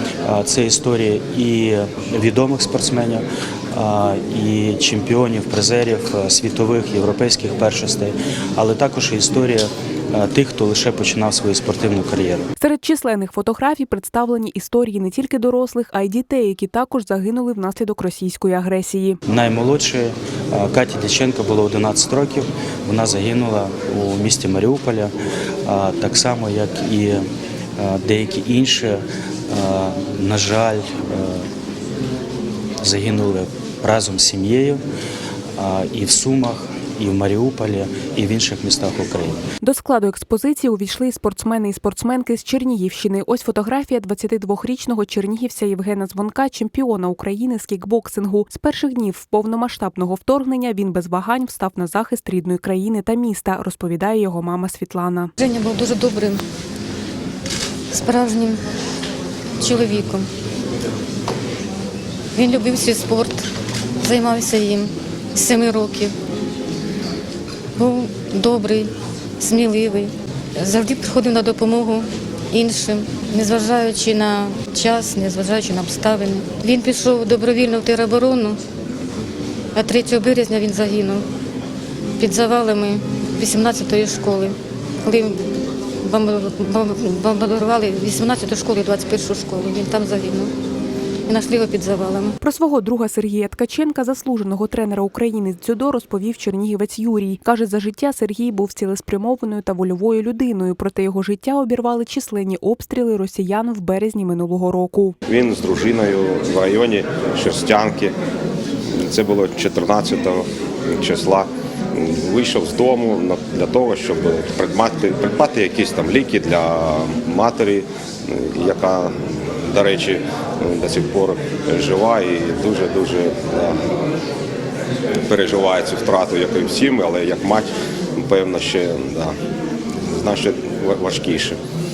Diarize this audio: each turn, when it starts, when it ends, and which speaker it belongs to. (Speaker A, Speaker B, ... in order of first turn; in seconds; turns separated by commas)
Speaker A: 0.2-12.5, Speaker B: 12.6-19.2, Speaker A: 19.2-25.1, Speaker A: 25.6-27.2, Speaker A: 27.8-31.5, Speaker A: 32.8-34.8, Speaker A: 35.6-39.4, Speaker B: 39.6-55.3, Speaker C: 55.4-56.4, Speaker C: 57.9-58.6, Speaker C: 59.6-60.3, Speaker C: 62.3-63.5, Speaker C: 64.0-66.1, Speaker C: 67.8-78.6, Speaker C: 79.7-81.2, Speaker C: 82.2-85.4, Speaker C: 86.0-90.5, Speaker C: 91.3-92.3, Speaker B: 92.4-105.2, Speaker D: 105.2-108.1, Speaker D: 108.9-123.8, Speaker D: 125.2-129.3, Speaker D: 130.1-131.6